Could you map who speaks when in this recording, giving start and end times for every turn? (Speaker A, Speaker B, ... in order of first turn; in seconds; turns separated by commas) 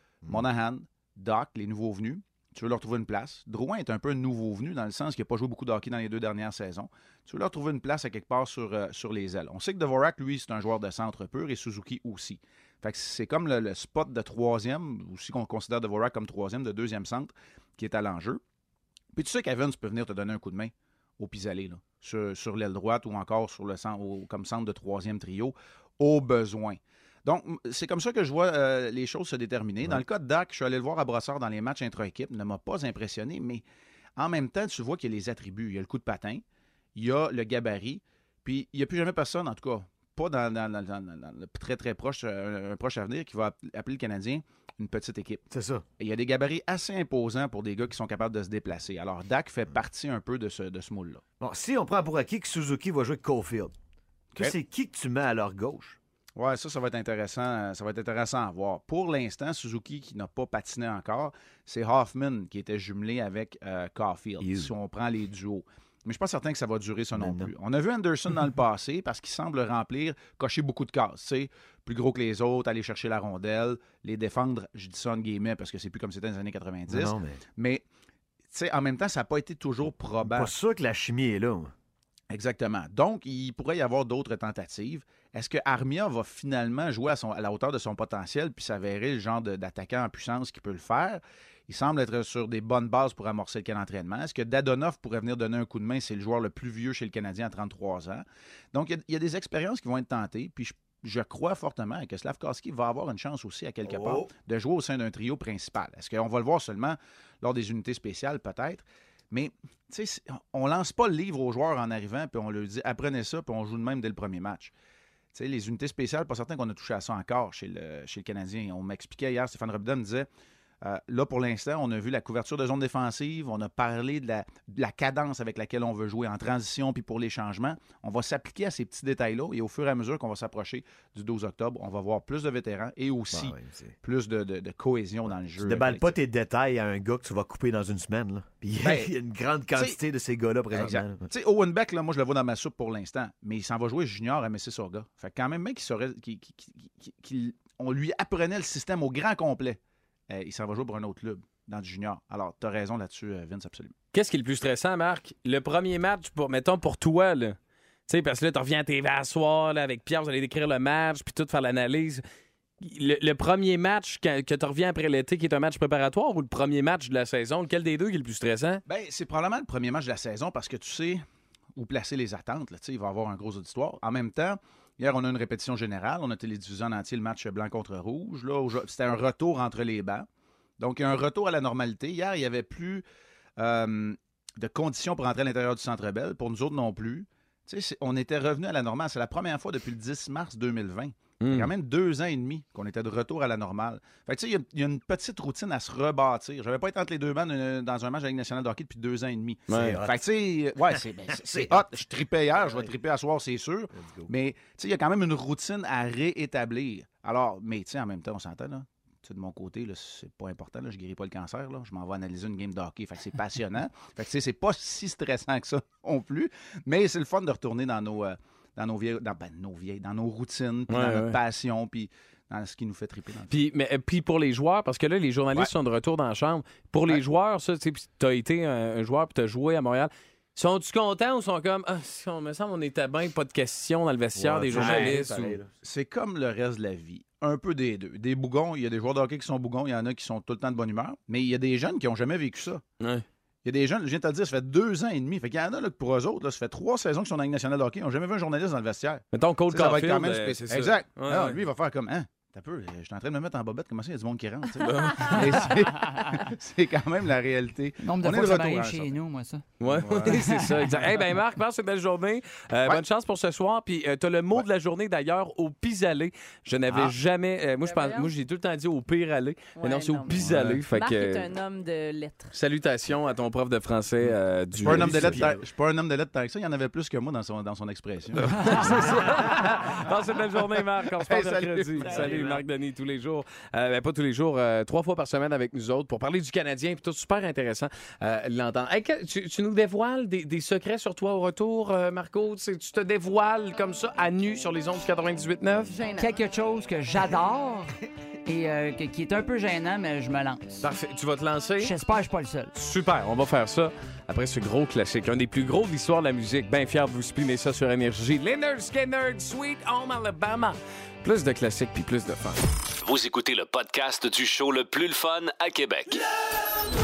Speaker A: 0.3-18.4, Speaker A: 19.1-33.6, Speaker A: 34.2-36.4, Speaker A: 37.0-45.5, Speaker B: 45.5-45.8, Speaker A: 46.0-51.2, Speaker B: 51.4-53.7, Speaker B: 54.4-56.0, Speaker A: 56.4-77.8, Speaker B: 64.4-64.7, Speaker B: 67.2-67.5, Speaker B: 76.9-77.4, Speaker A: 78.5-80.5, Speaker B: 80.2-81.7, Speaker A: 82.3-114.7, Speaker B: 103.9-104.3, Speaker A: 115.3-120.3, Speaker A: 120.8-136.2, Speaker B: 133.3-133.9, Speaker B: 135.6-141.3, Speaker A: 138.8-139.1, Speaker A: 140.7-153.9, Speaker C: 154.1-157.6, Speaker C: 158.1-162.2, Speaker C: 162.8-168.8, Speaker A: 168.9-171.2, Speaker A: 171.8-180.3, Speaker A: 180.8-183.1, Speaker A: 183.6-223.6, Speaker C: 191.4-191.7, Speaker C: 199.7-200.0, Speaker B: 199.7-200.2, Speaker B: 200.9-201.8, Speaker B: 202.6-202.9, Speaker B: 203.9-204.3, Speaker C: 220.9-221.4, Speaker C: 223.5-235.6, Speaker B: 234.4-235.7, Speaker A: 234.7-235.3, Speaker A: 235.8-242.8, Speaker A: 243.7-259.1, Speaker C: 249.3-251.6, Speaker C: 254.8-255.7, Speaker D: 258.0-259.6, Speaker C: 259.8-271.5, Speaker A: 259.8-260.4, Speaker D: 260.3-260.9, Speaker B: 266.9-267.1, Speaker E: 267.8-268.3, Speaker E: 269.8-270.4, Speaker B: 270.3-270.8, Speaker E: 270.9-272.6, Speaker C: 272.5-275.4, Speaker B: 274.8-275.6, Speaker A: 274.8-279.1, Speaker C: 278.4-295.9, Speaker D: 278.5-279.5, Speaker A: 280.9-282.6, Speaker E: 282.0-282.6, Speaker E: 295.9-296.4, Speaker D: 296.1-297.9, Speaker D: 298.5-300.8, Speaker C: 300.8-301.9, Speaker D: 301.8-302.7, Speaker C: 302.7-312.6, Speaker F: 313.0-316.2